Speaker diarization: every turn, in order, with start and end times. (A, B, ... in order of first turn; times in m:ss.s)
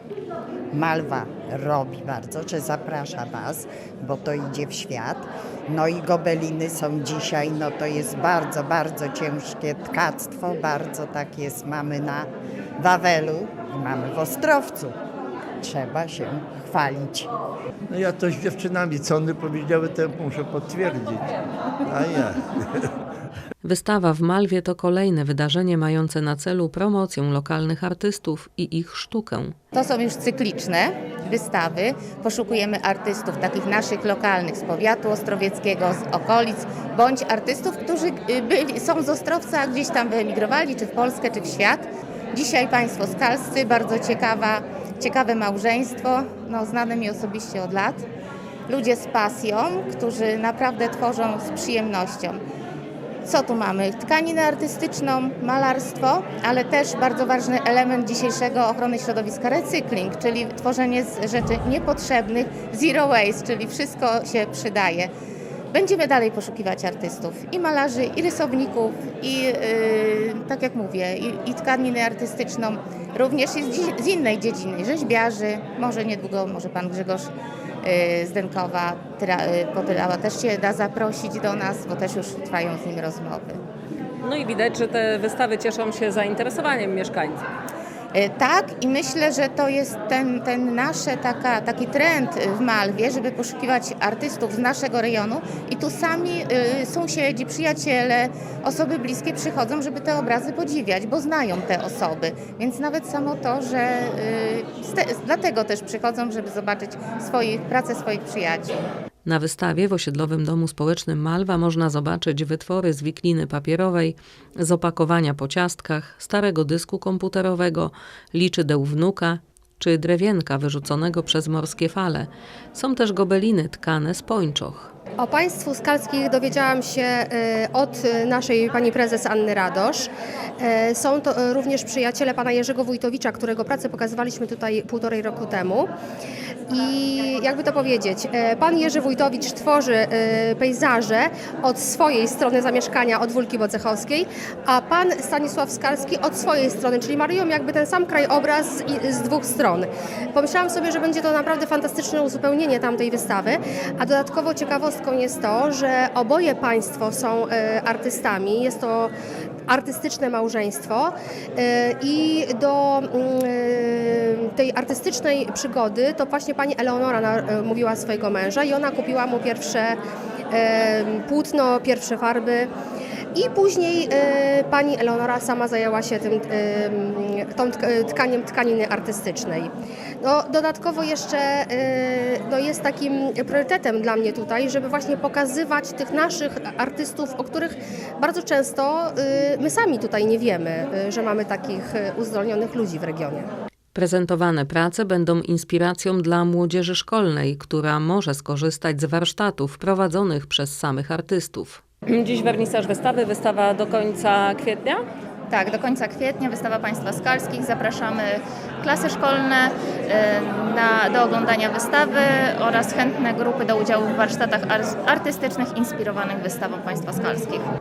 0:00.7-0:14.9 A
0:15.6-0:17.3 A
0:17.9-0:22.9 B
0:23.6-0:29.5 C
0:29.7-0:48.1 D
0:48.7-0:52.4 D
0:53.2-1:05.1 D
1:05.7-1:23.6 D
1:24.2-1:27.4 E
1:28.1-1:48.9 D
1:49.2-2:04.9 C
2:05.2-2:15.9 F
2:16.7-2:39.1 F
2:39.7-2:50.0 F
2:50.5-2:52.7 F
2:53.4-2:59.7 F
3:00.2-3:13.5 F
3:13.9-3:21.8 C
3:22.1-3:25.0 E
3:25.5-3:37.6 G